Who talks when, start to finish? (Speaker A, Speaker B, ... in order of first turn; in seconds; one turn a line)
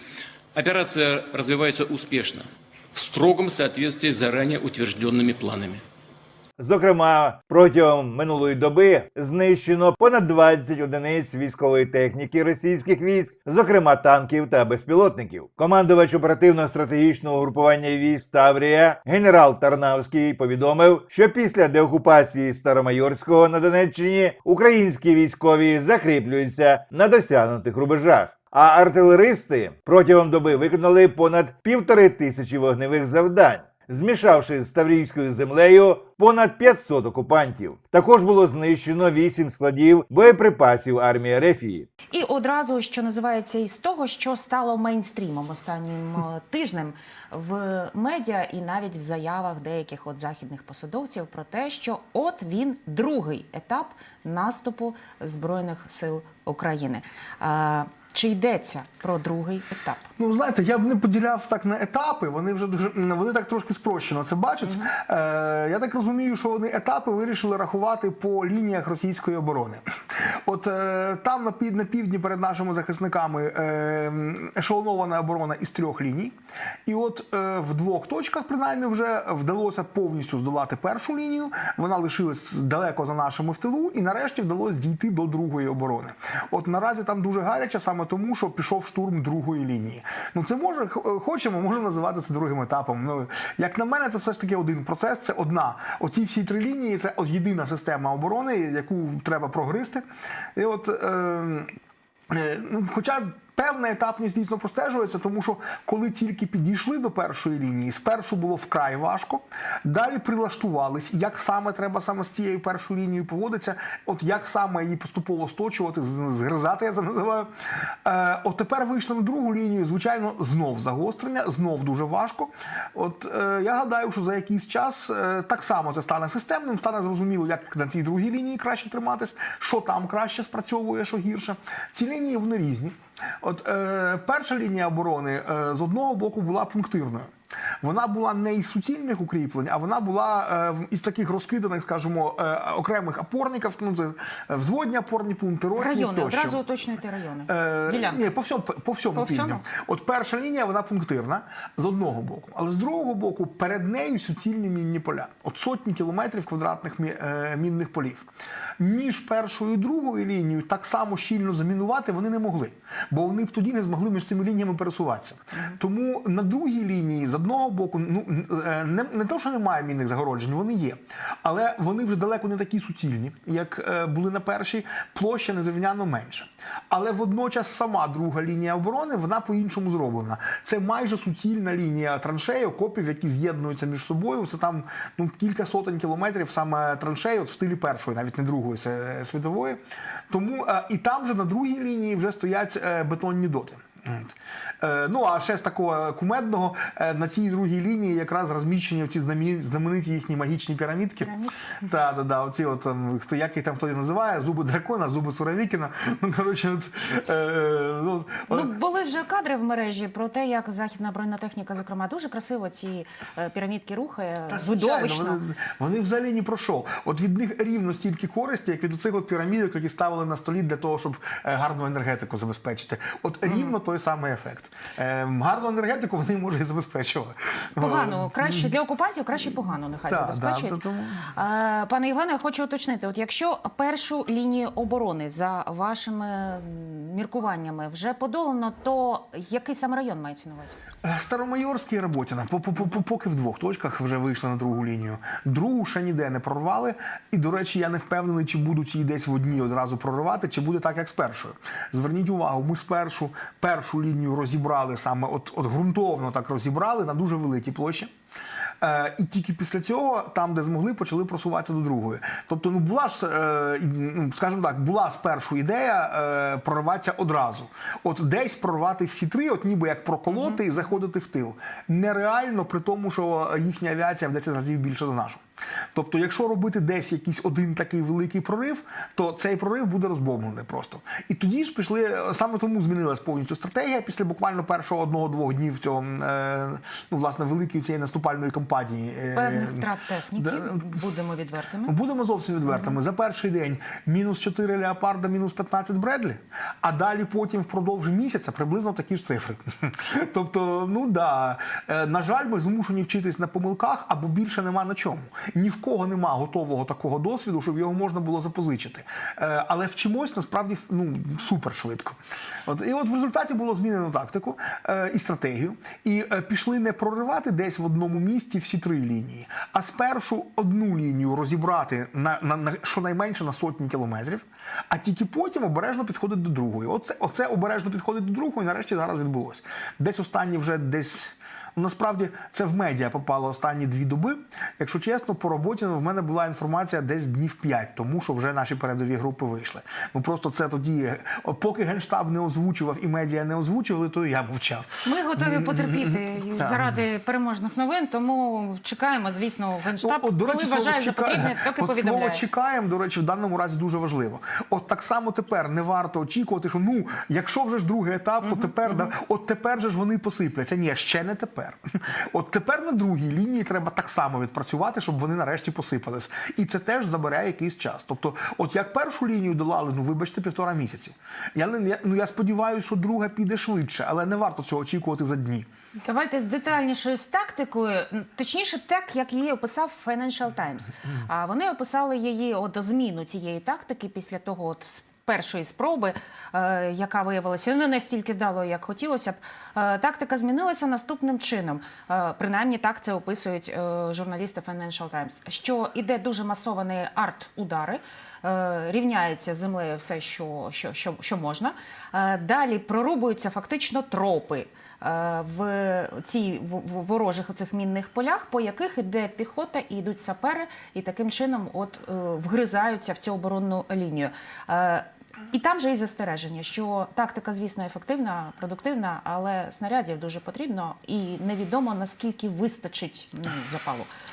Speaker A: 0.5-5.8
Speaker B: 6.6-41.9
Speaker C: 42.1-60.1
Speaker D: 60.2-76.3
Speaker C: 64.6-64.9
Speaker D: 76.8-100.0
Speaker D: 100.5-101.7
Speaker D: 102.3-117.5
Speaker D: 118.0-137.3
Speaker D: 137.8-146.6
Speaker C: 145.8-148.2
Speaker D: 147.5-158.2
Speaker C: 149.1-149.6
Speaker D: 158.8-189.8
Speaker D: 190.3-208.7
Speaker C: 201.2-201.8
Speaker C: 208.5-215.4
Speaker D: 214.5-228.7
Speaker C: 223.5-223.7
Speaker C: 227.8-240.8
Speaker D: 230.1-231.3
Speaker D: 241.0-258.1
Speaker D: 258.8-275.4
Speaker C: 270.3-270.6
Speaker D: 275.9-291.0
Speaker C: 289.3-291.9
Speaker D: 291.8-347.0
Speaker C: 292.7-292.9
Speaker C: 345.0-352.4
Speaker D: 350.0-375.7
Speaker C: 358.4-359.1
Speaker C: 376.0-424.1